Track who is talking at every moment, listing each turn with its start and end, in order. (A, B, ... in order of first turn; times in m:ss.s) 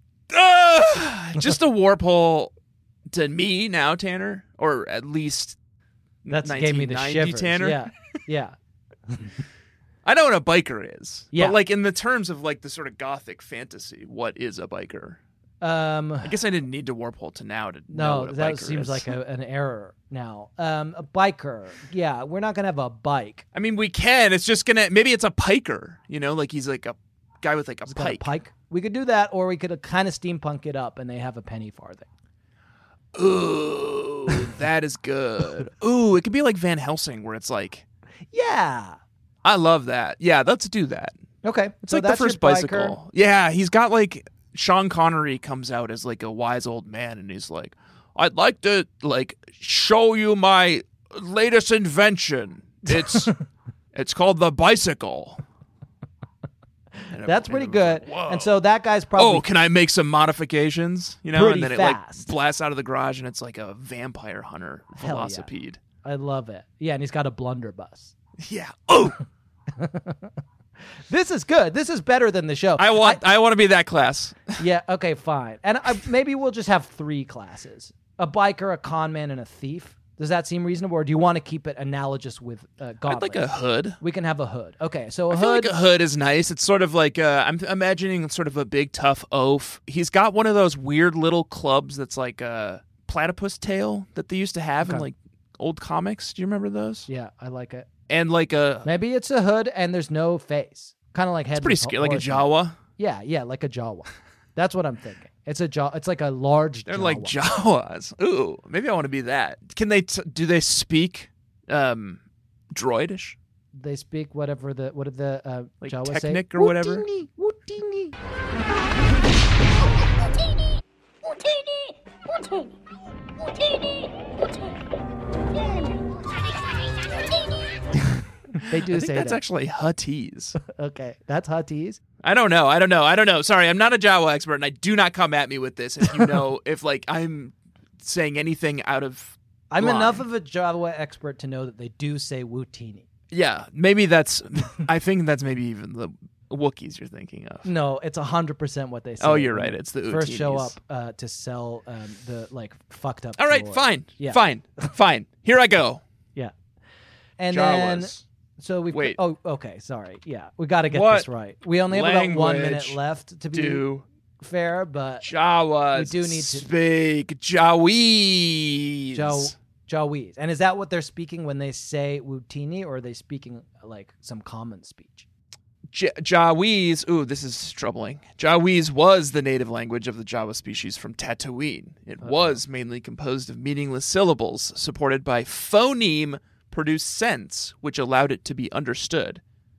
0:00.3-0:02.5 A
0:03.1-0:05.6 A
0:06.2-0:07.9 A
0:06.3-0:08.5 B
0:09.1-0:09.4 B
0:10.0-0:15.2 A
0:15.6-0:16.4 B
0:16.2-0:19.1 A
0:17.9-0:23.4 B
0:23.5-0:28.3 A
0:27.9-0:32.0 B
0:33.1-0:37.8 A
0:38.3-0:39.0 B
0:39.4-0:41.2 A
0:41.4-0:43.0 B
0:41.8-0:53.3 A
0:52.9-0:53.4 B
0:53.9-0:55.4 A
0:57.1-0:58.6 A
0:57.2-0:59.4 B
0:59.2-1:05.8 A
1:01.3-1:02.3 B
1:05.0-1:05.5 B
1:06.0-1:08.1 B
1:08.4-1:09.2 A
1:09.7-1:10.3 B
1:11.1-1:13.2 B
1:12.8-1:14.6 A
1:14.6-1:23.5 B
1:23.0-1:24.0 A
1:24.0-1:25.7 B
1:25.3-1:37.1 A
1:34.8-1:35.1 B
1:37.1-1:37.9 B
1:38.1-1:38.9 A
1:38.8-1:47.4 B
1:41.5-1:42.8 A
1:46.9-1:53.4 A
1:53.7-1:58.1 B
1:55.8-1:57.0 A
2:08.0-2:09.4 B
2:08.7-2:10.6 A
2:10.6-2:12.0 B
2:12.2-2:20.2 A
2:19.7-2:23.0 B
2:23.3-2:27.7 A
2:27.6-2:34.4 B
2:29.2-2:30.7 A
2:33.4-2:36.0 A
2:37.4-2:43.9 B
2:37.5-2:38.2 A
2:38.9-2:39.2 A
2:40.9-2:41.3 A
2:41.9-2:43.0 A
2:43.5-2:44.0 A
2:44.4-2:45.3 B
2:45.2-2:49.5 A
2:45.9-2:46.7 B
2:49.1-2:55.2 B
2:55.9-3:09.4 A
3:02.2-3:02.6 B